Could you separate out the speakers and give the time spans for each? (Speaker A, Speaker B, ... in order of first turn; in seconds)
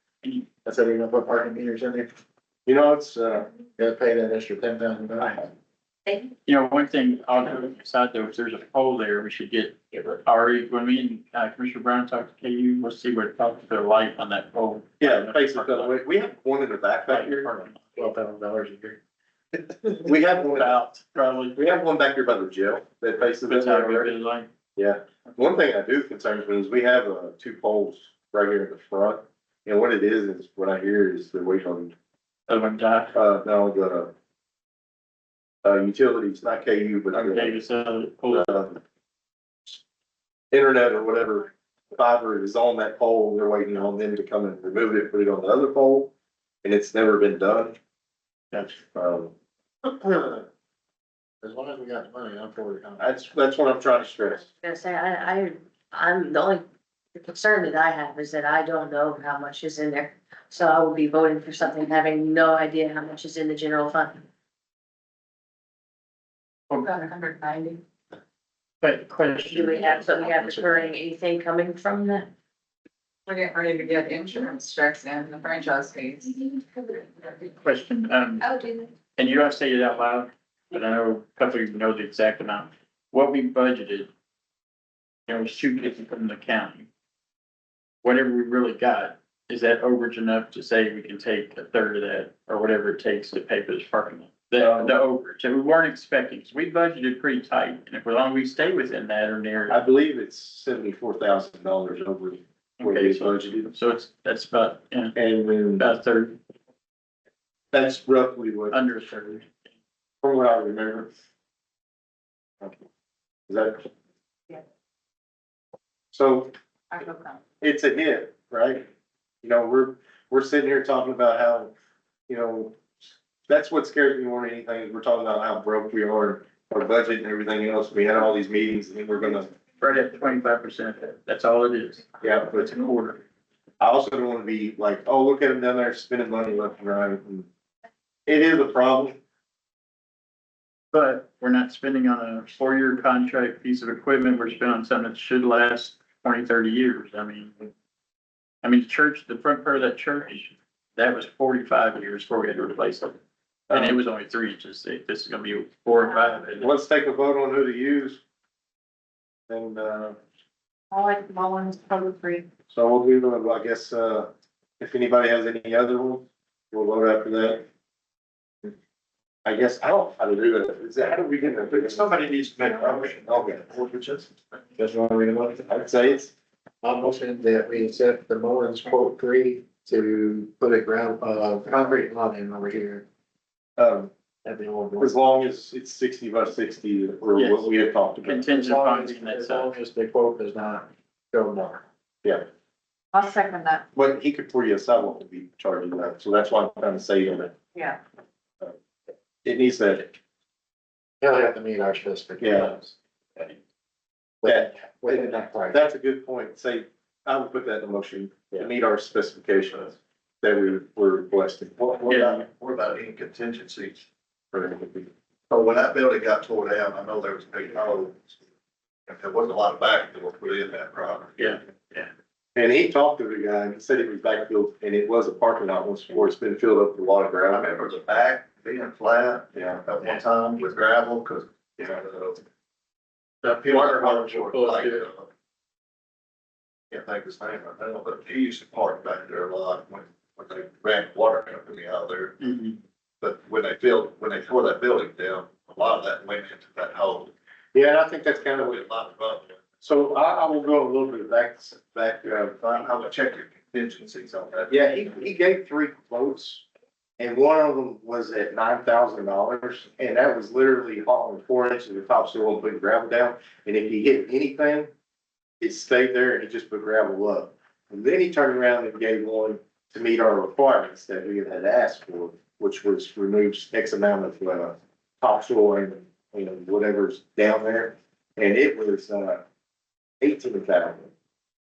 Speaker A: 0.6-2.1, 3.8-5.5, 18.0-19.0, 51.4-53.0, 174.8-175.7, 176.8-183.1, 184.4-185.1, 188.5-191.8, 201.2-202.9, 204.4-205.7
Speaker B: 2.7-3.5, 15.0-17.7, 20.1-20.8, 21.6-24.1, 24.8-31.9, 33.1-34.1, 35.6-37.6, 38.3-38.8, 40.5-46.1, 46.6-47.8, 48.5-49.3, 49.9-50.5, 53.0-54.5, 94.6-95.0, 99.7-103.7, 105.2-105.9, 107.7-108.8, 110.2-111.1, 113.5-113.9, 116.1-116.5, 117.6-118.9, 119.4-121.7, 122.3-122.8, 123.5-129.5, 132.2-132.8, 133.8-137.5, 138.3-139.2, 153.7-154.0, 156.6-158.2, 159.5-160.2, 162.7-167.7, 169.4-172.1, 172.9-173.7, 175.7-176.3, 183.8-184.1, 185.0-188.5, 193.9-197.5, 199.4-200.2, 202.4-202.8, 204.4-212.0, 222.6-227.7, 247.7-248.8, 249.8-252.6, 254.7-256.6, 257.2-264.9, 265.6-279.4, 280.2-281.1
Speaker C: 6.5-15.9, 17.1-17.9, 20.6-21.6, 23.5-24.5, 32.5-33.1, 37.1-38.5, 68.8-70.6, 77.6-78.5, 79.2-84.1, 85.3-86.9, 88.0-99.8, 102.8-105.2, 105.8-106.4, 108.7-109.7, 129.8-133.2, 140.9-147.6, 148.6-153.2, 153.7-156.7, 187.4-189.7, 212.1-212.4, 221.4-222.1, 233.7-235.1, 242.4-242.8
Speaker D: 54.6-64.2, 69.5-72.3
Speaker E: 66.8-67.8, 73.3-77.5, 78.5-78.9, 116.9-117.4, 160.9-162.5, 193.1-193.8
Speaker F: 171.7-174.3, 211.9-214.0, 215.5-218.4, 219.1-221.6, 227.5-232.4, 233.4-235.3, 236.9-242.3, 243.2-247.3, 248.5-249.6, 252.6-254.8